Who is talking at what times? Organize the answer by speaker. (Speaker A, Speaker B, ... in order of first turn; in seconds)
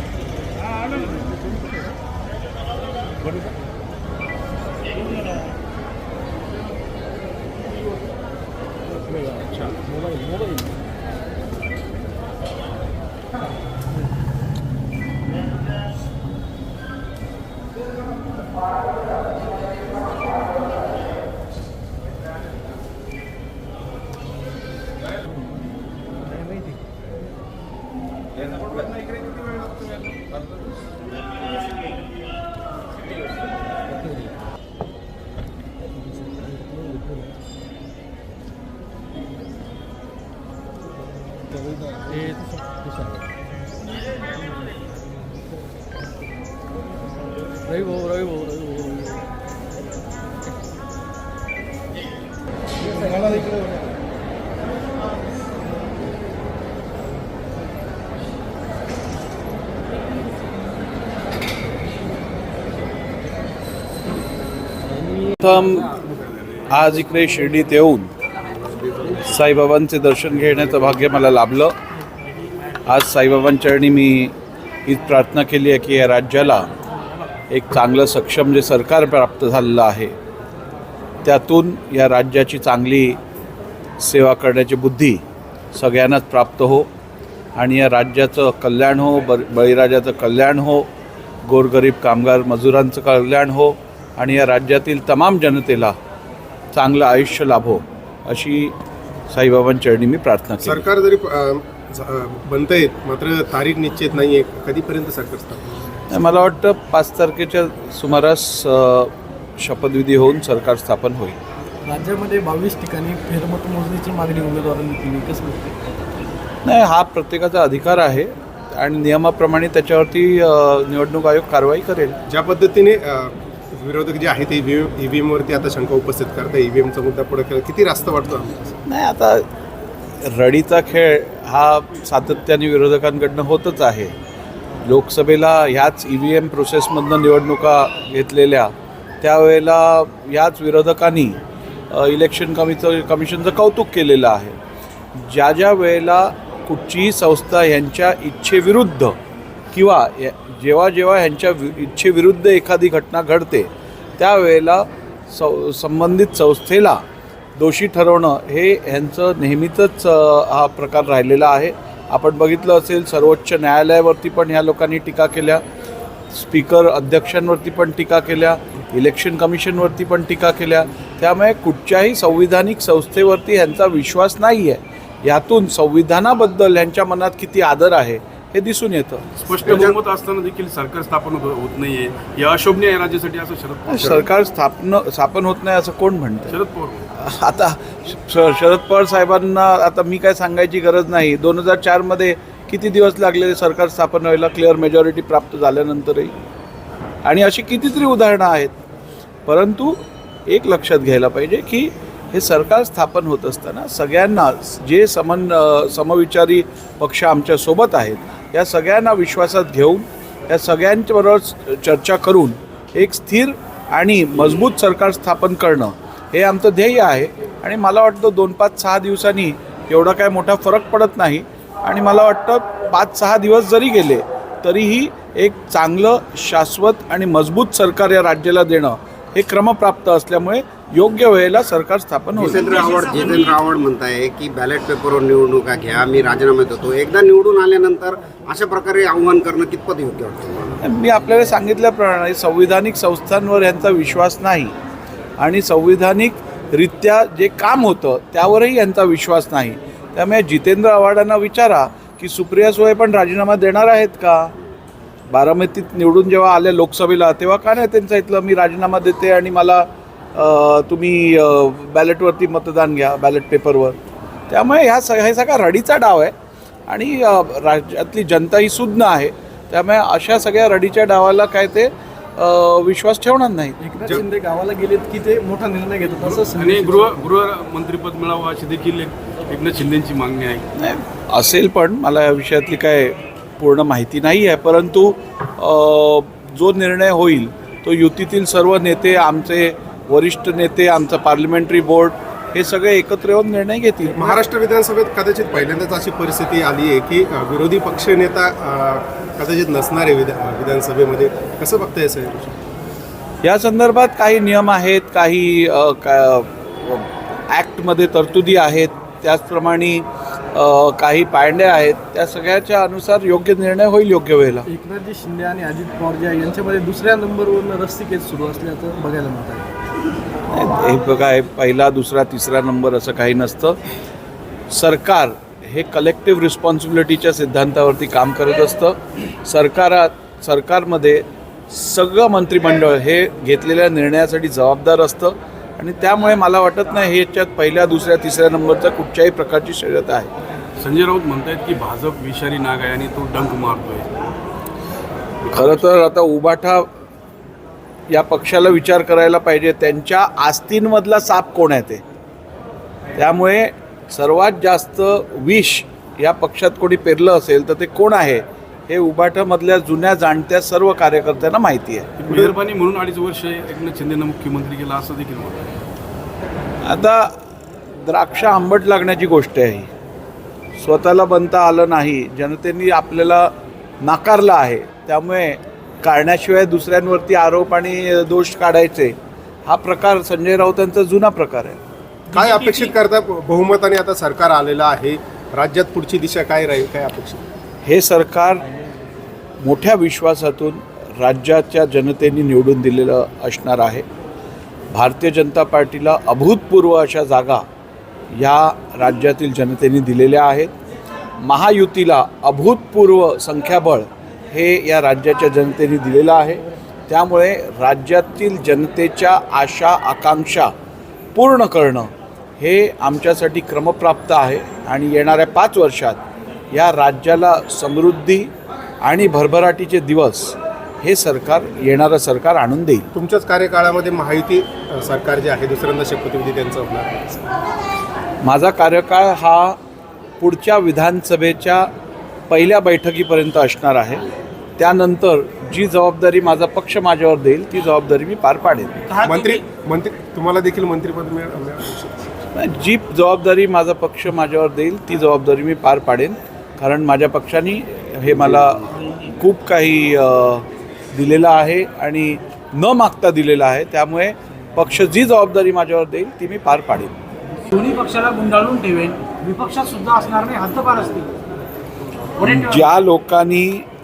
Speaker A: 47.7-49.2, 111.8-115.8, 273.8-277.2, 314.6-319.7
Speaker B: 65.4-66.0, 66.7-68.1, 69.2-71.7, 72.8-74.3, 74.8-76.7, 77.5-80.1, 81.2-83.2, 84.0-85.2, 85.7-86.9, 87.5-90.9, 91.4-96.0, 96.7-98.7, 99.3-100.8, 106.1-111.4, 116.6-122.2, 128.8-129.4, 130.2-134.1, 134.8-144.6, 145.2-149.2, 149.7-157.0, 157.6-165.6, 166.3-179.2, 183.9-186.6, 187.1-196.3, 197.2-198.7, 199.5-232.9, 240.8-244.7, 245.4-254.5, 255.3-264.0, 264.5-266.3, 266.9-273.8, 280.7-294.4, 303.4-314.6, 320.5-323.8, 324.7-340.3, 345.5-346.9, 348.1-352.0, 353.1-362.5, 366.8-367.4, 368.0-369.9, 370.8-381.8, 387.8-388.6, 389.6-394.0, 394.9-397.6, 398.3-400.7, 401.4-410.7, 411.3-416.2, 416.7-418.5, 419.0-423.1, 428.4-429.8, 430.4-431.9, 432.5-439.1, 442.5-457.1, 462.4-463.9
Speaker C: 68.6-69.2, 179.7-179.9, 232.4-240.8
Speaker D: 100.6-105.8, 122.3-128.7, 294.2-302.6, 382.3-387.4, 423.1-427.5, 439.2-442.3
Speaker E: 179.4-184.2, 186.5-187.1, 276.5-280.7, 340.8-344.3, 362.2-365.8
Speaker F: 439.2-439.6, 457.7-461.3, 462.4-462.7